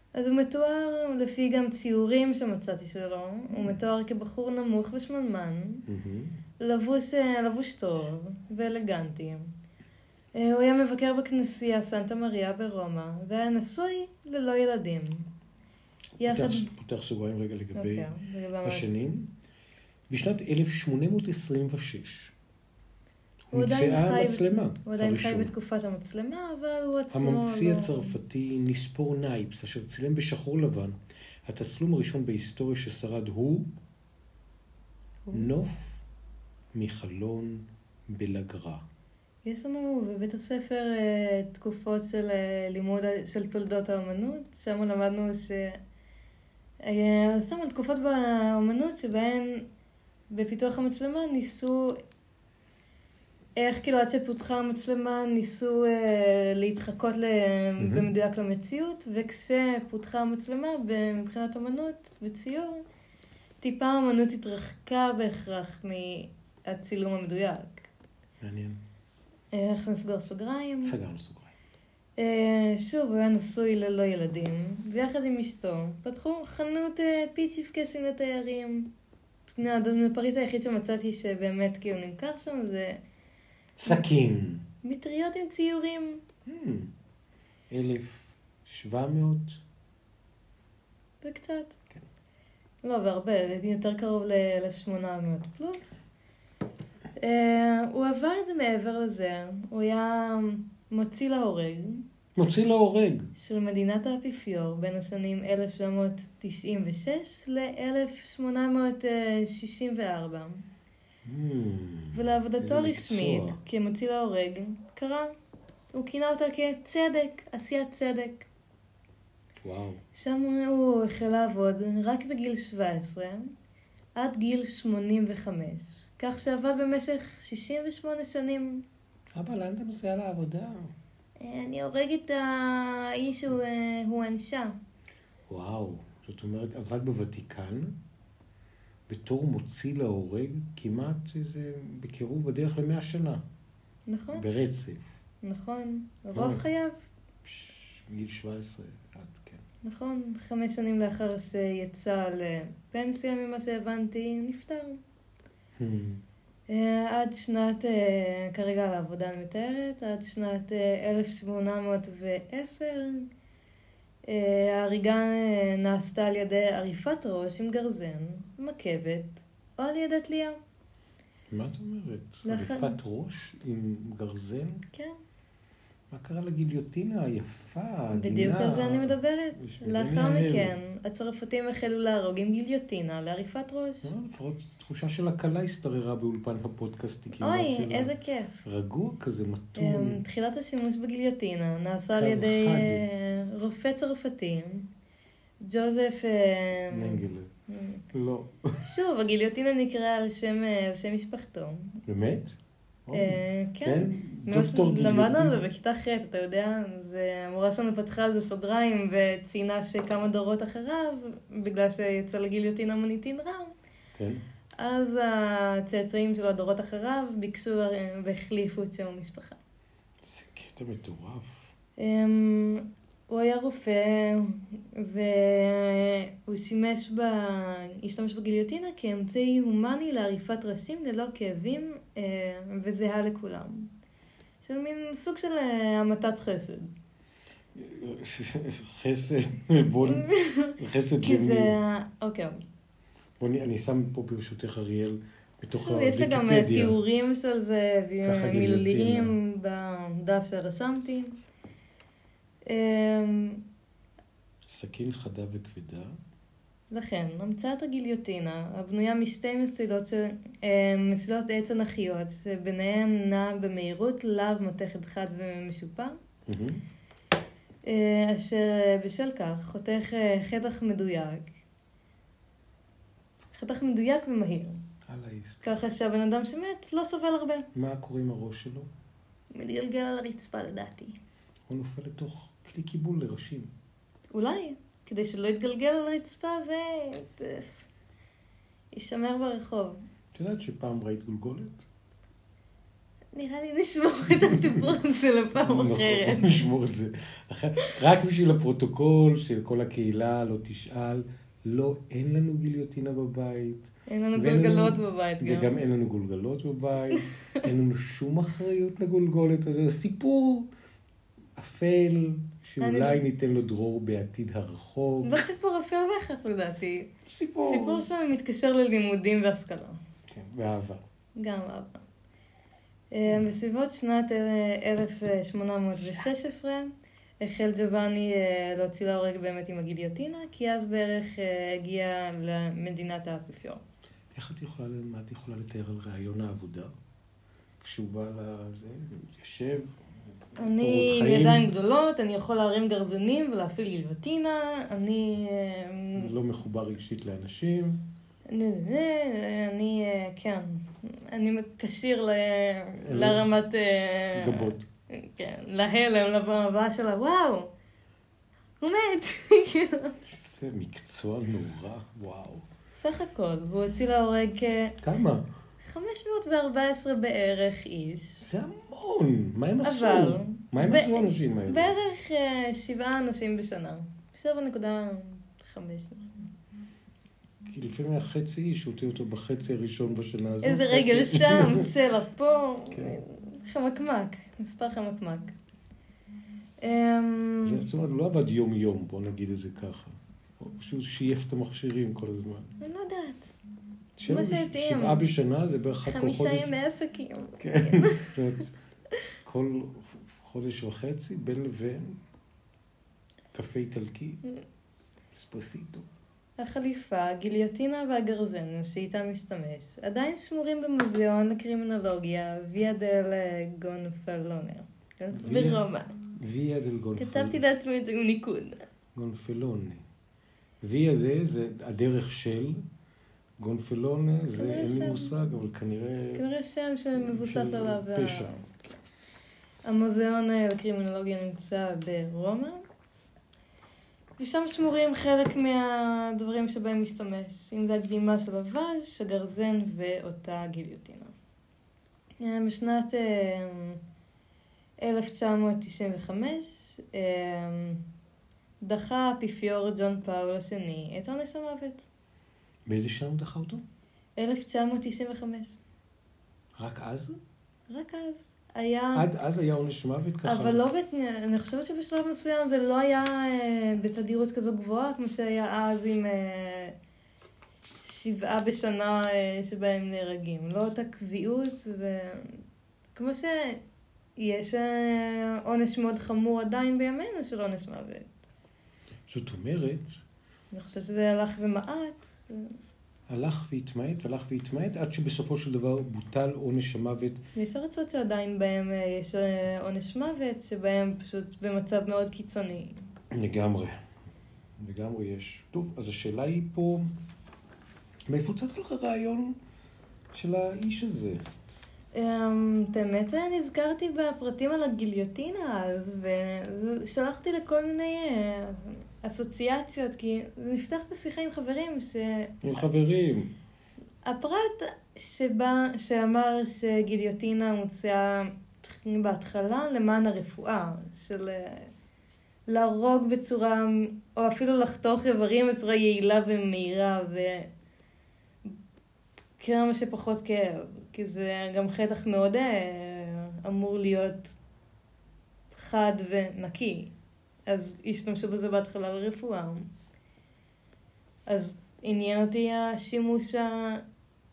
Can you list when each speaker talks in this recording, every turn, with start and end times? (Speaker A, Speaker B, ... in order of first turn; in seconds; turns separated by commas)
Speaker A: 0.1-5.8, Speaker B: 5.9-6.4, Speaker A: 6.6-9.5, Speaker A: 10.3-15.3, Speaker A: 16.2-16.6, Speaker B: 16.2-18.1, Speaker A: 17.7-18.9, Speaker B: 18.6-19.3, Speaker B: 20.1-22.3, Speaker B: 23.5-25.5, Speaker A: 23.5-28.2, Speaker B: 27.1-33.7, Speaker B: 35.3-36.0, Speaker B: 36.7-38.8, Speaker A: 39.4-45.8, Speaker A: 46.8-49.6, Speaker A: 50.3-52.0, Speaker A: 53.6-62.8, Speaker B: 57.8-58.1, Speaker A: 63.6-67.9, Speaker B: 68.4-68.8, Speaker A: 69.5-71.0, Speaker B: 70.8-71.5, Speaker A: 72.2-78.9, Speaker A: 79.5-83.0, Speaker B: 83.8-84.6, Speaker A: 84.8-86.2, Speaker B: 86.5-86.9, Speaker B: 87.7-89.6, Speaker A: 91.2-91.8, Speaker A: 92.8-95.9, Speaker A: 97.2-102.0, Speaker B: 102.3-103.3, Speaker A: 103.3-110.6, Speaker B: 111.2-113.6, Speaker A: 112.1-115.3, Speaker A: 115.9-118.5, Speaker B: 119.6-120.0, Speaker A: 120.1-123.5, Speaker A: 124.2-128.8, Speaker B: 129.3-130.9, Speaker A: 131.4-134.8, Speaker B: 135.5-137.9, Speaker B: 139.1-143.4, Speaker A: 144.1-144.4, Speaker B: 144.3-145.1, Speaker A: 145.4-147.0, Speaker B: 146.3-146.6, Speaker B: 147.4-149.6, Speaker A: 149.8-155.0, Speaker B: 155.8-156.2, Speaker A: 156.7-163.3, Speaker A: 164.2-170.6, Speaker B: 171.5-174.8, Speaker A: 172.4-173.0, Speaker B: 176.1-180.7, Speaker A: 178.1-184.1, Speaker B: 184.0-188.1, Speaker A: 187.4-188.6, Speaker B: 188.6-190.2, Speaker A: 189.8-194.9, Speaker B: 192.1-193.0, Speaker A: 195.6-198.0, Speaker B: 196.9-197.5, Speaker B: 198.1-198.8, Speaker A: 198.8-202.0, Speaker B: 202.0-205.6, Speaker A: 203.1-213.7, Speaker B: 214.1-214.4, Speaker A: 214.8-219.6, Speaker B: 220.2-221.7, Speaker A: 222.0-233.9, Speaker A: 234.6-236.9, Speaker B: 237.7-241.7, Speaker A: 240.0-242.6, Speaker B: 243.4-247.0, Speaker A: 245.7-251.3, Speaker B: 248.2-249.3, Speaker A: 252.7-253.6, Speaker B: 254.7-256.1, Speaker A: 256.9-266.2, Speaker B: 266.4-266.8, Speaker A: 267.8-271.5, Speaker A: 273.5-274.8, Speaker B: 275.0-275.7, Speaker A: 275.6-277.7, Speaker B: 277.7-278.9, Speaker A: 279.5-281.2, Speaker B: 281.7-283.7, Speaker A: 284.3-287.9, Speaker A: 288.9-290.0, Speaker B: 290.3-291.9, Speaker A: 293.3-296.6, Speaker B: 295.6-310.7, Speaker A: 304.1-305.7, Speaker B: 311.6-315.4, Speaker A: 312.8-313.2, Speaker A: 315.2-317.1, Speaker B: 317.3-318.1, Speaker A: 317.6-320.0, Speaker B: 320.3-321.0, Speaker A: 321.4-322.0, Speaker A: 323.1-333.8, Speaker B: 334.3-336.9, Speaker B: 337.8-339.9, Speaker A: 340.6-346.3, Speaker B: 340.8-341.7, Speaker B: 346.2-348.0, Speaker A: 348.5-357.7, Speaker B: 353.0-353.5, Speaker B: 354.3-354.9, Speaker A: 358.8-360.2, Speaker B: 360.2-362.6, Speaker A: 363.0-365.0, Speaker B: 365.0-365.5, Speaker A: 365.8-368.5, Speaker B: 368.4-371.9, Speaker A: 369.8-376.5, Speaker B: 377.6-381.9, Speaker A: 380.6-385.5, Speaker A: 386.8-387.9, Speaker B: 387.6-392.7, Speaker A: 392.8-393.5, Speaker B: 394.2-396.7, Speaker A: 394.3-395.3, Speaker A: 396.0-398.4, Speaker B: 397.6-398.7, Speaker B: 399.4-402.2, Speaker B: 403.5-404.4, Speaker B: 405.3-406.1, Speaker A: 406.6-416.2, Speaker B: 415.3-417.6, Speaker A: 417.1-418.8, Speaker B: 419.1-420.0, Speaker B: 420.8-422.8, Speaker B: 423.6-426.4, Speaker A: 424.6-425.3, Speaker A: 426.3-428.6, Speaker B: 427.2-428.6, Speaker A: 429.8-432.8, Speaker A: 434.4-441.3, Speaker A: 442.4-444.0, Speaker A: 445.0-448.0, Speaker A: 448.8-452.1, Speaker B: 452.9-453.8, Speaker A: 454.4-455.8, Speaker B: 456.8-457.4, Speaker A: 457.9-459.2, Speaker B: 459.1-460.8, Speaker A: 460.4-466.9, Speaker A: 468.0-472.6, Speaker A: 473.1-473.8, Speaker A: 474.4-478.3, Speaker B: 479.3-480.2, Speaker A: 480.7-482.7, Speaker B: 483.3-487.4, Speaker A: 487.6-492.9, Speaker B: 493.3-494.0, Speaker B: 494.8-497.1, Speaker B: 498.3-499.6, Speaker B: 500.3-501.4, Speaker A: 502.1-512.5, Speaker B: 512.6-513.5, Speaker A: 514.2-521.9, Speaker A: 522.7-527.7, Speaker A: 529.6-534.5, Speaker A: 535.7-537.1, Speaker A: 537.7-539.9, Speaker A: 541.5-544.0